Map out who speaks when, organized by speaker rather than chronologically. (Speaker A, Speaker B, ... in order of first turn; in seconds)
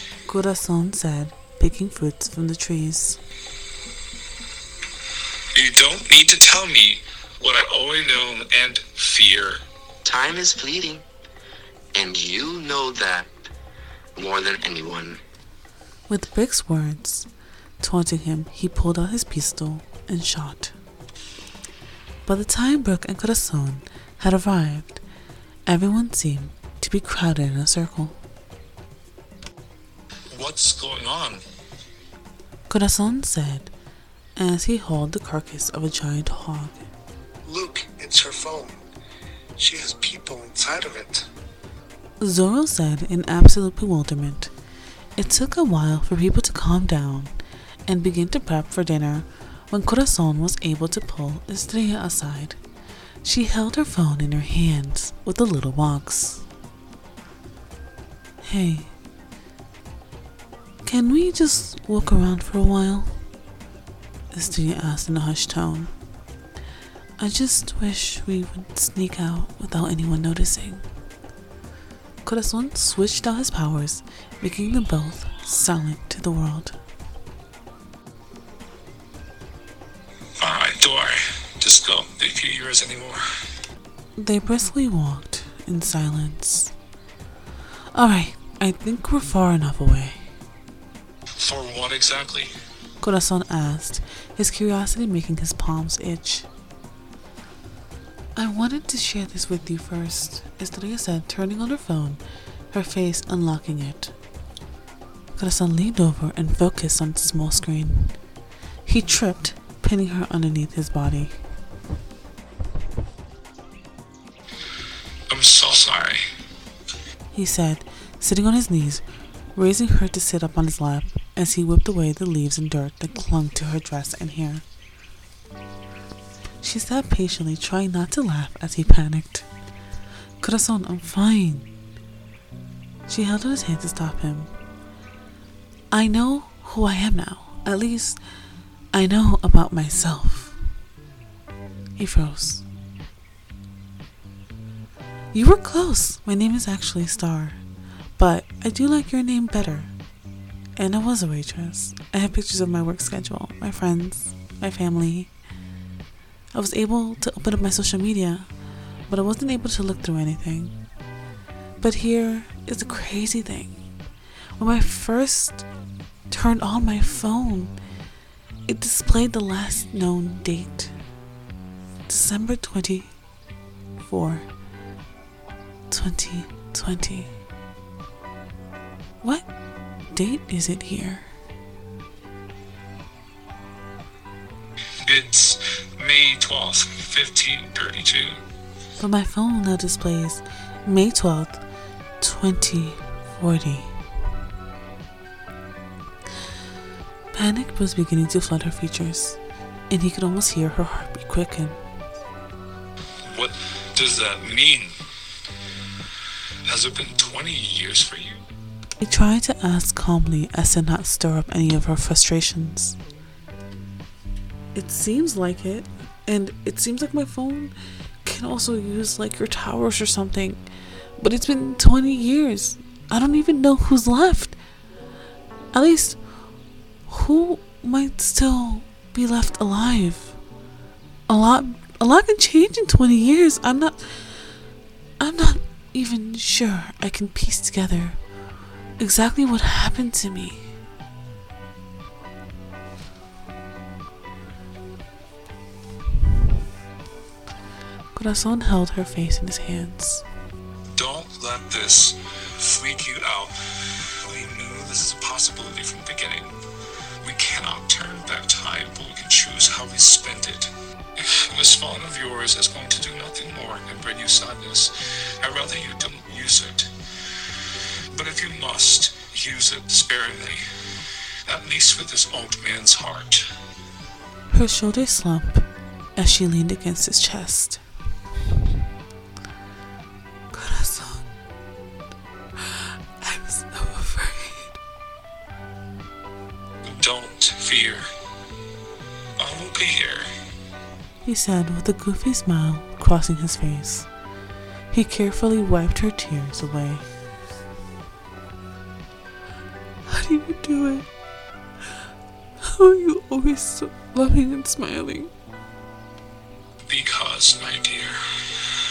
Speaker A: 0.3-3.2, 16.1-17.3, 17.8-20.7, 22.2-25.0, 25.6-28.2, 32.7-33.7, 34.4-36.9, 42.2-44.5, 45.2-47.3, 47.9-52.6, 53.2-56.4, 58.4-58.9, 60.8-63.2, 64.3-65.9, 67.2-70.8, 72.2-76.8, 84.2-86.7, 87.9-90.3, 93.0-96.5, 98.3-104.1, 105.3-108.2, 108.8-111.4, 117.3-124.6, 126.6-129.5, 130.4-131.7, 133.1-134.5, 135.9-138.2, 138.9-140.6, 142.0-142.6, 145.3-147.6, 148.2-149.9, 150.8-155.3, 156.5-158.5, 159.1-160.8, 161.8-163.8, 164.6-165.7, 166.3-167.7, 168.7-170.9, 172.1-173.1, 174.0-174.4, 175.9-177.3, 180.1-181.3, 188.9-191.6, 192.2-193.9, 197.3-201.8, 209.0-213.0, 214.7-220.6, 221.2-224.6, 225.7-226.2, 227.1-230.4, 231.3-234.5, 235.2-238.2, 239.0-240.7, 248.1-250.2, 274.5-277.8, 280.5-281.3, 282.6-284.8, 291.2-294.1, 294.9-297.1, 300.1-301.1, 302.6-305.3
Speaker B: 5.5-9.6, 30.3-31.4, 80.4-83.2, 91.4-92.5, 115.3-116.2, 185.0-188.4, 203.2-204.9, 206.7-208.4, 250.9-253.5, 254.2-256.5, 257.2-266.9, 268.1-270.6, 271.4-273.4, 286.8-288.1, 289.4-290.3, 306.9-308.7
Speaker C: 10.0-11.0, 11.9-13.3, 14.2-15.2
Speaker D: 37.4-38.8, 39.6-41.3